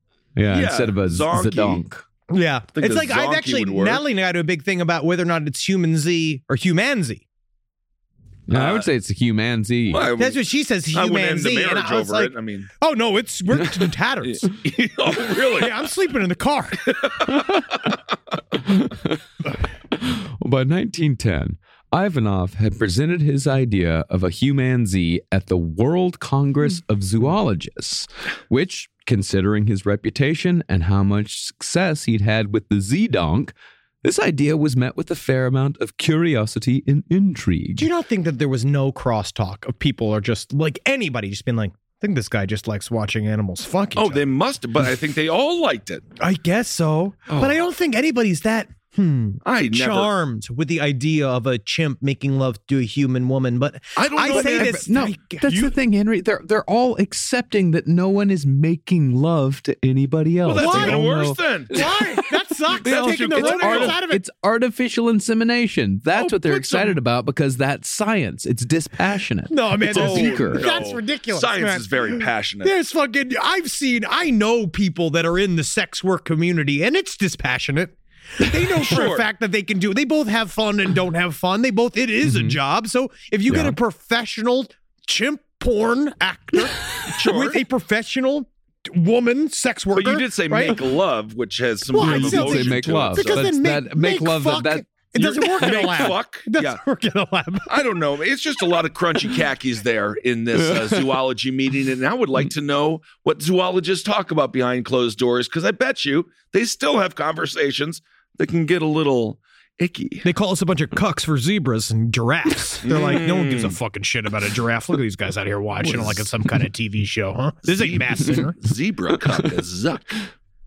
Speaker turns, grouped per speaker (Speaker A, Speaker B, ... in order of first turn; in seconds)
Speaker A: 0.3-2.0, 8.5-10.1, 18.7-19.2, 19.9-37.9, 54.2-62.0, 62.8-70.7, 82.2-82.6, 83.5-83.8, 92.0-95.5, 100.5-101.1
Speaker B: 0.5-1.8, 2.8-4.0, 8.5-8.9, 9.9-12.7, 14.2-15.9, 17.0-17.9, 44.0-46.0, 47.3-47.6, 49.4-50.1, 54.0-54.9, 60.5-61.7, 62.8-64.0, 66.1-67.0, 69.9-72.7, 78.8-79.2, 87.1-87.6, 89.9-93.5, 95.2-96.8, 97.7-110.2, 112.8-113.8, 115.8-116.2, 117.7-120.2
Speaker C: 2.3-7.2, 10.2-14.4, 15.6-17.0, 37.8-44.2, 46.2-55.7, 60.6-64.2, 69.5-90.8, 91.9-97.7, 110.2-118.5